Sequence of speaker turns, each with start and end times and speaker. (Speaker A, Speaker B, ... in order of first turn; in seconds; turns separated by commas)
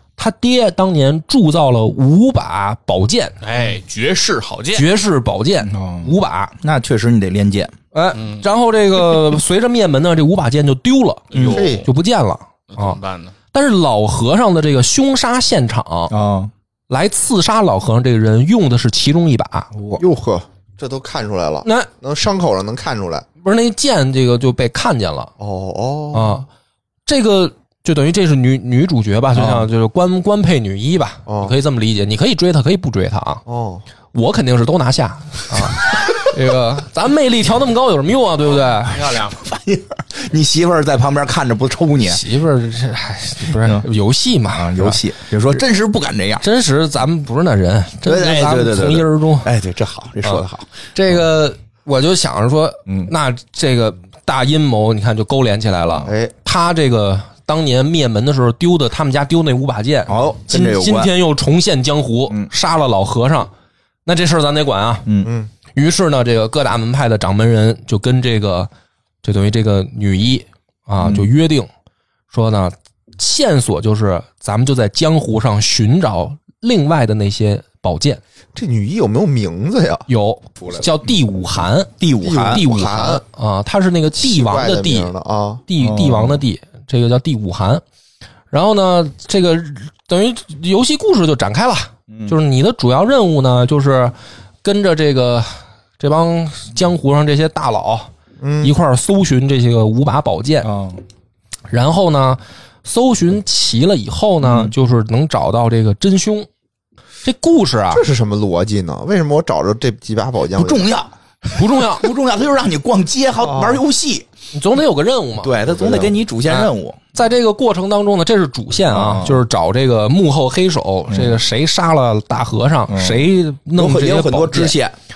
Speaker A: 0.2-3.4, Speaker B: 3.4-4.8, Speaker A: 4.7-6.5, Speaker C: 5.7-7.7, Speaker A: 7.9-13.0, Speaker B: 8.1-8.4, Speaker C: 11.3-11.6, Speaker B: 11.3-11.8, Speaker D: 11.4-11.9, Speaker B: 12.7-13.3, Speaker A: 13.5-16.1, Speaker C: 16.1-16.5, Speaker A: 16.9-19.7, Speaker C: 19.7-20.0, Speaker D: 20.0-23.2, Speaker A: 21.6-21.9, Speaker A: 23.4-25.3, Speaker D: 25.4-26.4, Speaker A: 26.1-26.5, Speaker A: 27.1-33.4, Speaker C: 29.3-29.7, Speaker D: 31.3-31.5, Speaker D: 33.5-33.8, Speaker A: 34.1-39.2, Speaker B: 38.9-39.4, Speaker C: 39.3-42.2, Speaker A: 42.1-45.0, Speaker C: 43.5-43.9, Speaker C: 44.5-46.4, Speaker A: 46.4-49.5, Speaker C: 48.0-50.7, Speaker A: 50.2-63.5, Speaker D: 56.0-56.3, Speaker C: 60.1-61.1, Speaker A: 64.0-65.1, Speaker C: 65.0-65.3, Speaker D: 65.2-65.5, Speaker A: 65.7-68.7, Speaker A: 69.2-71.7, Speaker C: 71.0-71.2, Speaker A: 72.3-78.2, Speaker D: 78.5-80.1, Speaker A: 80.1-81.9, Speaker C: 80.6-80.8, Speaker C: 82.0-82.6, Speaker D: 82.2-83.2, Speaker A: 82.4-85.1, Speaker D: 84.2-85.6, Speaker A: 85.7-87.8, Speaker C: 85.8-86.4, Speaker A: 88.5-98.1, Speaker C: 92.1-92.3, Speaker D: 98.4-98.7, Speaker A: 98.6-100.7, Speaker C: 100.6-101.0, Speaker A: 101.7-106.5, Speaker C: 104.4-104.7, Speaker A: 107.2-108.0, Speaker D: 107.9-110.9, Speaker C: 110.5-114.2, Speaker A: 111.5-112.1, Speaker D: 113.4-113.8, Speaker A: 114.5-124.7, Speaker C: 115.4-117.0, Speaker C: 118.9-119.4, Speaker C: 121.1-121.4, Speaker C: 122.9-124.9